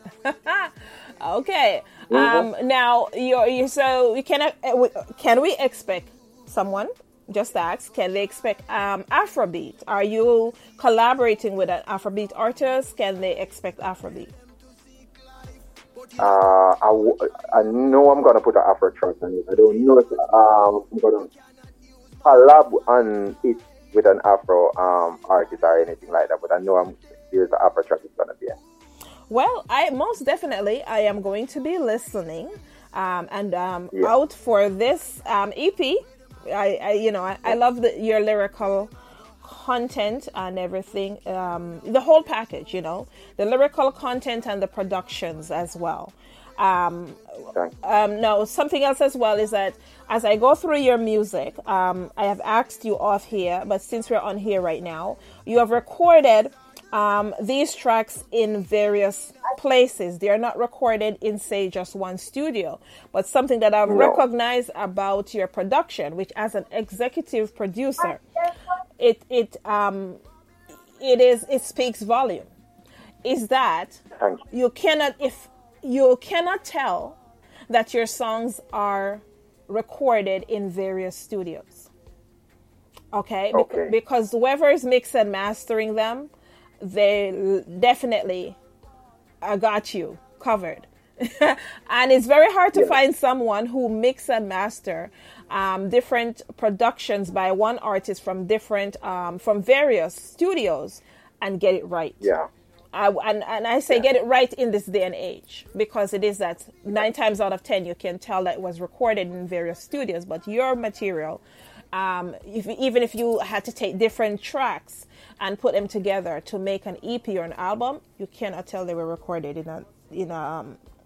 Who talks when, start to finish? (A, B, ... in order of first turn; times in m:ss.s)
0:00.2-0:14.3 A
0:02.1-0:02.5 B
0:16.2-0:21.3 B
0:22.2-0:28.6 B
0:29.3-0:38.9 A
0:39.4-0:47.2 A
0:47.8-1:08.2 A
1:03.9-1:04.2 B
1:09.0-1:10.2 A
1:11.0-1:12.5 A
1:13.2-1:14.0 A
1:14.5-1:17.2 A
1:17.7-1:21.9 A
1:23.1-1:26.3 A
1:23.5-1:23.9 B
1:26.8-1:28.6 A
1:29.4-1:42.3 A
1:42.2-1:42.5 B
1:42.9-1:51.4 A
1:51.9-2:00.8 A